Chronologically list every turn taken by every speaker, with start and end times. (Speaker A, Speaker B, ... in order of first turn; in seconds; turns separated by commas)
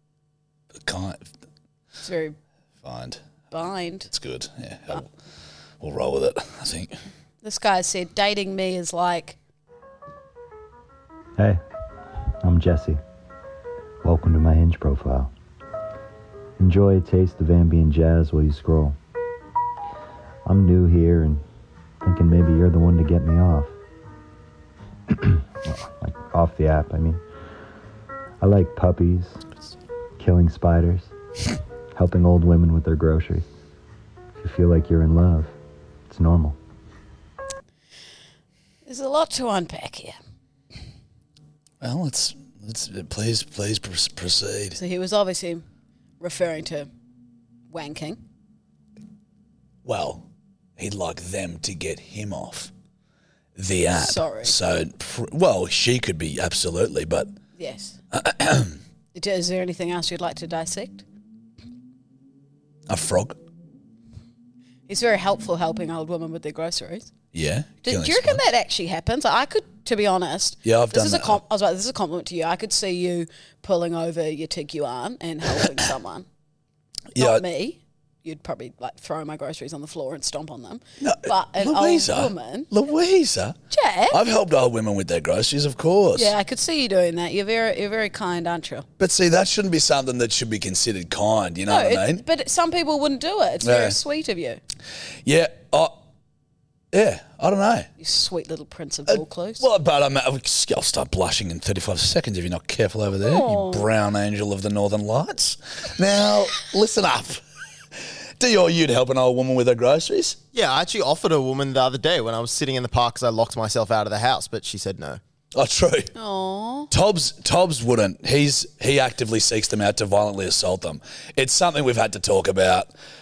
Speaker A: 0.7-1.3, Speaker B: 2.0-2.4, Speaker A: 2.8-3.2, Speaker B: 3.5-4.1, Speaker A: 4.1-5.1, Speaker A: 5.8-7.0, Speaker B: 7.4-9.4, Speaker C: 12.4-13.0, Speaker C: 14.0-15.3, Speaker C: 16.6-19.0, Speaker C: 20.4-21.4, Speaker C: 22.0-23.7, Speaker C: 25.1-27.2, Speaker C: 28.4-29.4, Speaker C: 30.2-31.1, Speaker C: 31.9-33.5, Speaker C: 34.4-35.5, Speaker C: 36.1-36.6, Speaker B: 38.9-40.2, Speaker A: 41.8-44.8, Speaker B: 44.8-45.6, Speaker B: 46.2-46.9, Speaker B: 47.7-48.2, Speaker A: 49.9-50.2, Speaker A: 50.8-52.7, Speaker A: 53.6-57.3, Speaker B: 53.9-54.5, Speaker B: 57.6-58.0, Speaker A: 58.1-58.8, Speaker B: 59.1-61.0, Speaker A: 62.9-63.4, Speaker B: 64.9-67.1, Speaker A: 67.3-68.4, Speaker B: 67.8-76.3, Speaker A: 70.7-71.4, Speaker A: 77.1-77.4, Speaker B: 77.2-82.7, Speaker A: 81.0-83.6, Speaker B: 83.7-84.2, Speaker A: 84.1-86.3, Speaker B: 86.2-88.9, Speaker A: 89.0-92.2, Speaker B: 91.7-94.6, Speaker A: 93.6-94.0, Speaker A: 95.2-96.0, Speaker A: 96.9-97.9, Speaker B: 98.0-99.7, Speaker A: 99.1-107.4, Speaker B: 103.2-103.9, Speaker A: 108.4-110.4, Speaker D: 110.5-115.2, Speaker A: 115.5-116.1, Speaker B: 116.2-116.9, Speaker A: 116.9-122.9